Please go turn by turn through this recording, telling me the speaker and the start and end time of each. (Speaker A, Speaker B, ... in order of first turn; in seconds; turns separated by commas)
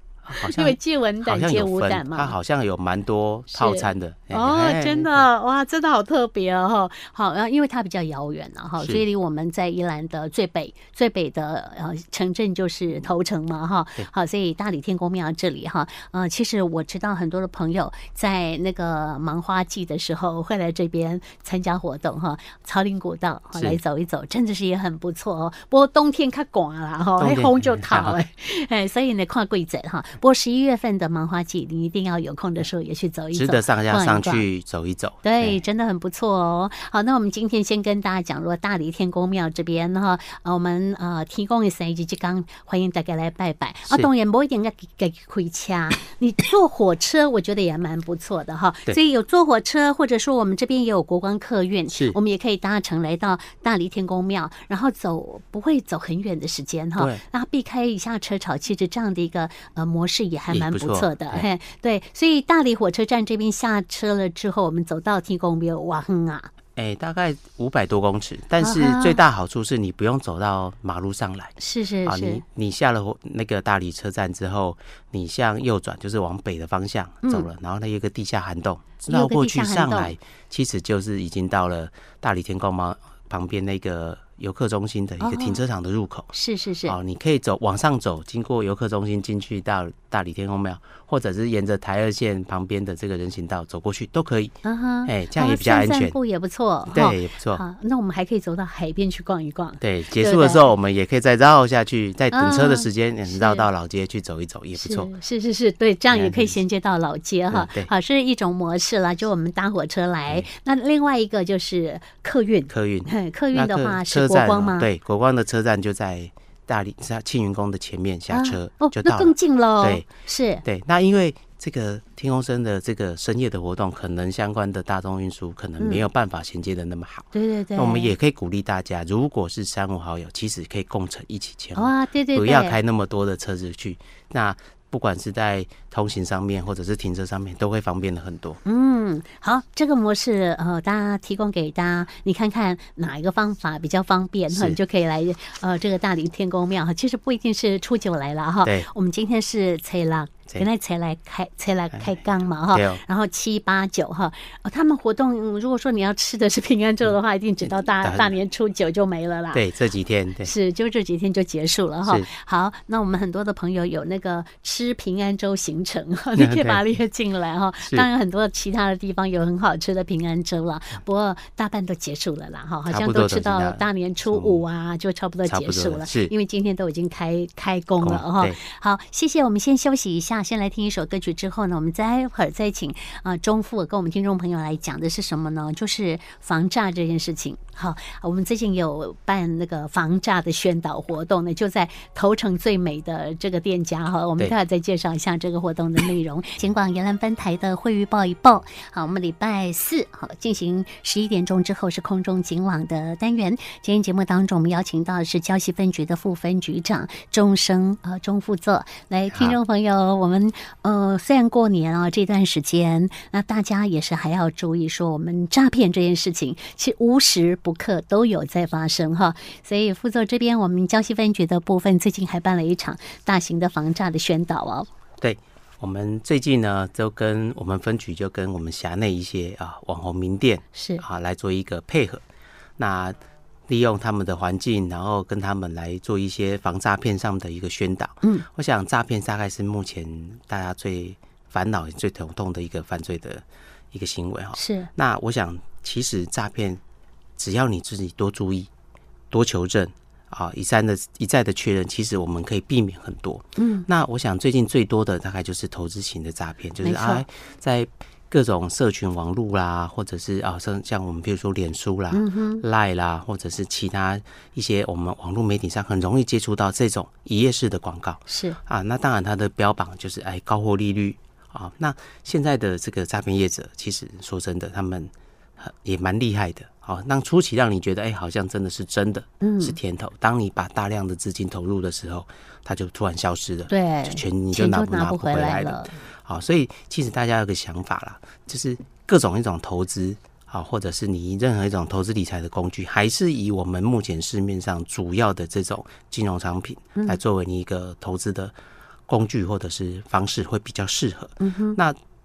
Speaker A: 0.2-5.3, Speaker B: 0.3-2.3, Speaker B: 3.5-34.4, Speaker A: 23.6-23.8, Speaker A: 27.2-28.2, Speaker A: 33.3-35.6, Speaker B: 35.2-66.5, Speaker A: 57.0-57.2, Speaker A: 60.5-61.5, Speaker A: 66.8-86.3, Speaker B: 68.6-69.2, Speaker B: 71.6-72.4, Speaker B: 79.1-80.1, Speaker B: 85.2-85.6, Speaker B: 86.3-87.0, Speaker A: 86.9-96.2, Speaker B: 94.6-100.7, Speaker A: 96.9-97.6, Speaker A: 99.8-105.1, Speaker B: 102.3-103.7, Speaker B: 104.8-114.9, Speaker A: 106.1-106.6, Speaker A: 107.5-107.9, Speaker A: 112.7-120.1, Speaker B: 118.3-120.6, Speaker A: 120.6-138.6, Speaker B: 127.3-128.1, Speaker B: 131.8-132.8, Speaker B: 138.7-159.7, Speaker A: 144.5-144.8, Speaker A: 148.6-148.9, Speaker A: 152.7-153.0, Speaker A: 158.0-158.3, Speaker A: 159.5-160.5, Speaker B: 160.4-224.9, Speaker A: 166.4-166.9, Speaker A: 172.9-174.6, Speaker A: 175.5-176.3, Speaker A: 178.0-178.6, Speaker A: 209.3-209.6, Speaker A: 225.2-232.2, Speaker B: 230.7-231.0, Speaker A: 232.8-233.2, Speaker A: 233.7-246.8, Speaker B: 244.5-244.9, Speaker A: 247.4-248.7, Speaker A: 249.3-298.5, Speaker B: 253.6-253.9, Speaker B: 256.8-257.2, Speaker B: 262.1-262.6, Speaker B: 268.3-268.6, Speaker B: 279.4-279.8, Speaker B: 283.7-286.0, Speaker A: 299.1-302.0, Speaker B: 301.4-301.8